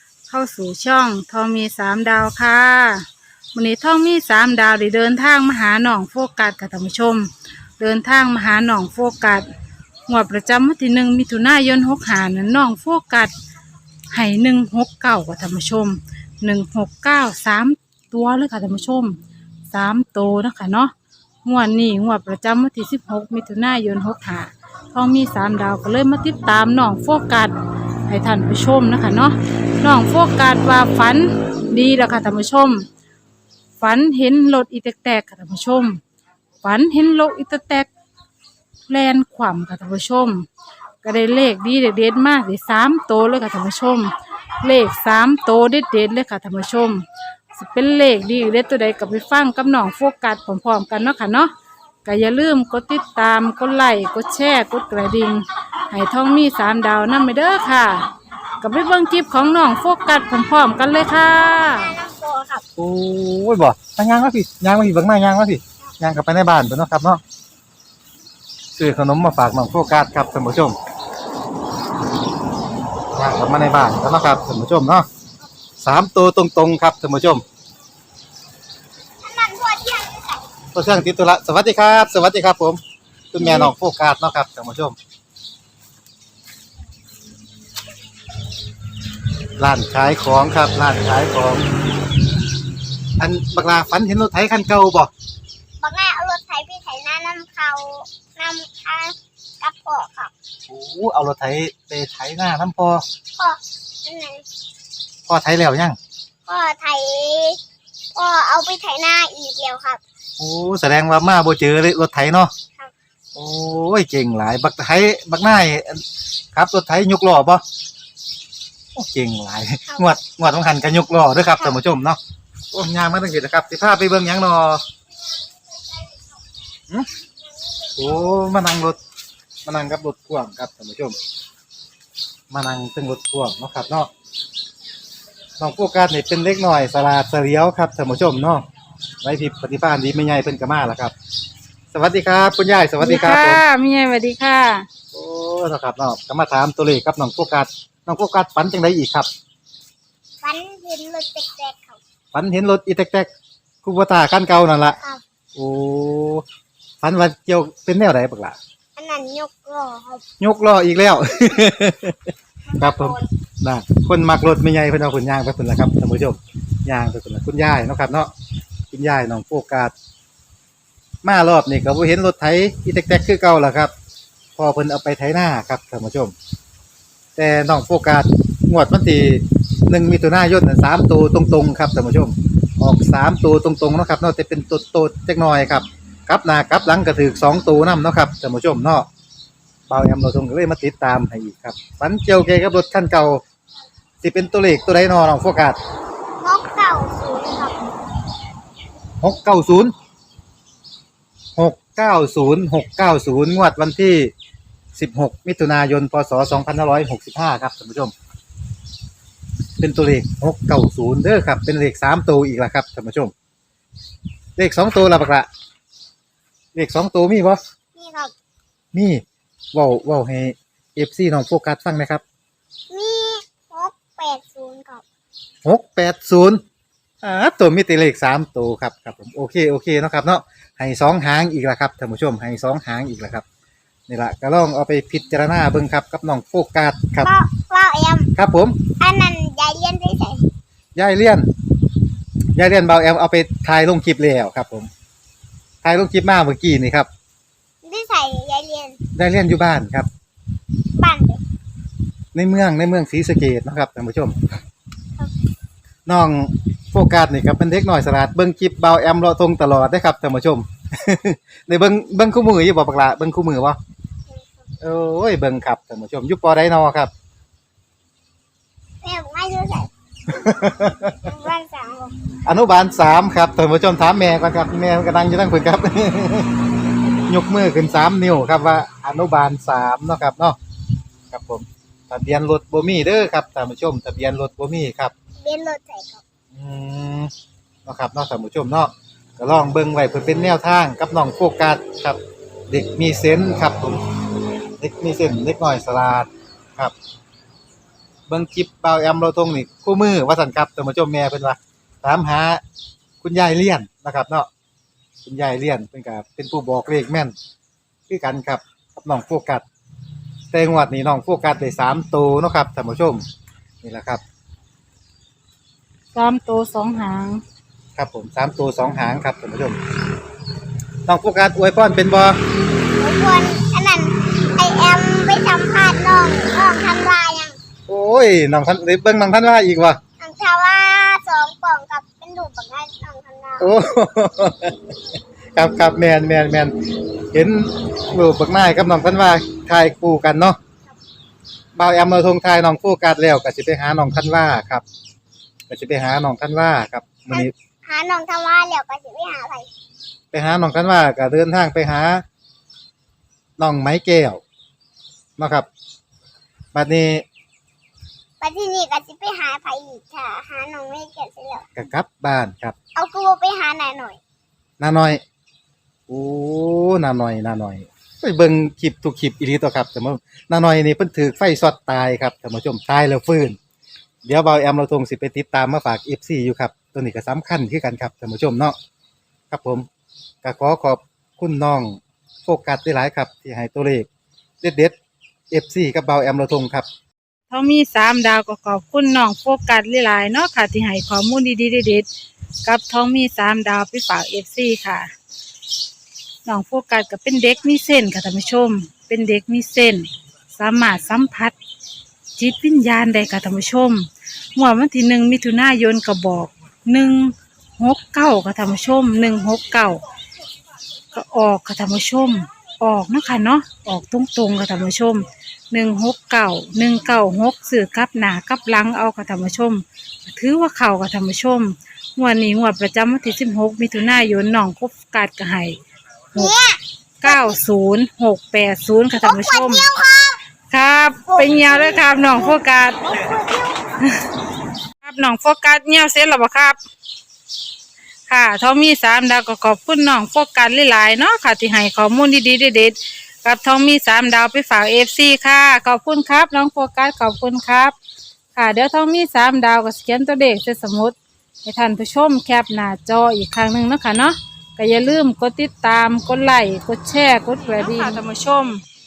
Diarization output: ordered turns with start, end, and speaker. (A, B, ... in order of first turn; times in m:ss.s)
0:00.3-0:09.5 A
0:10.1-0:13.3 A
0:14.1-0:19.2 A
0:19.7-0:20.9 A
0:21.4-0:27.5 A
0:28.1-0:32.9 A
0:33.8-0:36.0 A
0:36.6-0:37.9 A
0:38.9-0:40.5 A
0:41.0-0:44.1 A
0:44.6-0:47.0 A
0:47.5-0:51.5 A
0:52.0-0:58.1 A
0:58.6-1:01.9 A
1:01.6-1:02.6 B
1:02.8-1:07.2 C
1:08.7-1:10.8 C
1:13.1-1:15.1 C
1:15.8-1:17.4 C
1:19.2-1:20.4 B
1:20.7-1:22.8 C
1:23.3-1:25.0 C
1:29.6-1:31.6 C
1:33.2-1:35.1 C
1:35.8-1:40.3 B
1:40.7-1:43.0 C
1:43.4-1:44.4 B
1:45.3-1:46.0 C
1:46.5-1:47.6 B
1:48.1-1:50.0 B
1:50.4-1:52.5 C
1:53.3-1:57.6 C
1:58.9-2:02.2 C
1:59.9-2:00.1 B
2:02.7-2:04.8 C
2:08.0-2:09.0 C
2:09.6-2:11.2 C
2:12.5-2:14.1 C
2:15.6-2:18.6 C
2:19.2-2:21.1 C
2:21.9-2:23.6 C
2:23.0-2:24.9 A
2:25.1-2:29.3 C
2:30.4-2:32.0 B
2:32.3-2:33.3 C
2:33.8-2:35.0 C
2:35.5-2:36.4 C
2:37.0-2:38.6 C
2:39.0-2:40.2 B
2:40.4-2:42.2 C
2:42.7-2:43.2 B
2:42.8-2:48.3 C
2:48.9-2:49.9 C
2:51.2-2:53.9 C
2:54.6-2:56.3 C
2:57.4-3:09.1 C
3:09.9-3:13.4 C
3:14.2-3:15.8 C
3:16.4-3:17.8 B
3:19.2-3:19.9 C
3:21.6-3:24.3 C
3:24.9-3:28.1 C
3:29.8-3:33.3 C
3:34.6-3:35.5 C
3:36.7-3:37.6 C
3:38.0-3:38.3 B
3:38.9-3:39.2 C
3:39.7-3:42.2 C
3:42.9-3:45.0 B
3:45.6-3:46.6 C
3:47.2-3:53.4 C
3:54.1-3:57.3 C
3:57.2-3:58.3 B
3:58.4-3:58.9 C
3:59.0-4:00.4 B
4:00.9-4:01.5 C
4:02.6-4:04.9 C
4:05.8-4:07.1 C
4:07.8-4:09.0 B
4:09.1-4:10.1 C
4:11.0-4:11.4 B
4:12.3-4:14.4 C
4:16.0-4:23.8 C
4:24.8-4:27.1 C
4:29.0-4:30.4 B
4:30.3-4:31.3 C
4:31.2-4:32.1 B
4:32.4-4:36.5 C
4:37.3-4:40.6 C
4:41.3-4:45.1 C
4:45.4-4:46.2 B
4:46.5-4:47.3 C
4:47.8-4:54.0 C
4:54.8-4:56.9 C
4:58.3-5:02.6 C
5:03.2-5:04.5 C
5:05.2-5:07.3 C
5:08.1-5:09.6 C
5:10.5-5:13.2 C
5:13.8-5:14.2 C
5:16.1-5:17.4 A
5:18.0-5:19.8 C
5:21.1-5:22.4 C
5:23.0-5:27.6 B
5:27.9-5:30.0 C
5:30.2-5:33.7 B
5:33.6-5:34.9 C
5:35.5-5:36.7 C
5:37.3-5:40.6 C
5:41.8-5:44.8 C
5:45.7-5:47.5 C
5:47.3-5:49.7 B
5:50.3-5:52.2 C
5:53.6-5:54.4 C
5:55.4-5:55.7 C
5:56.7-5:57.2 C
5:58.4-6:01.6 B
6:01.8-6:02.8 C
6:02.9-6:04.2 B
6:04.8-6:05.2 C
6:06.1-6:13.6 C
6:14.2-6:18.8 C
6:19.5-6:19.8 C
6:20.4-6:24.1 C
6:24.6-6:25.0 C
6:25.5-6:26.9 C
6:27.5-6:32.1 A
6:32.6-6:35.1 A
6:36.4-6:41.5 A
6:42.4-6:50.0 A
6:51.1-7:05.8 A
7:06.3-7:07.6 B
7:07.2-7:09.8 A
7:09.2-7:10.4 B
7:10.7-7:13.0 A
7:11.3-7:14.0 B
7:15.0-7:16.8 A
7:18.3-7:27.9 A
7:28.5-7:38.8 A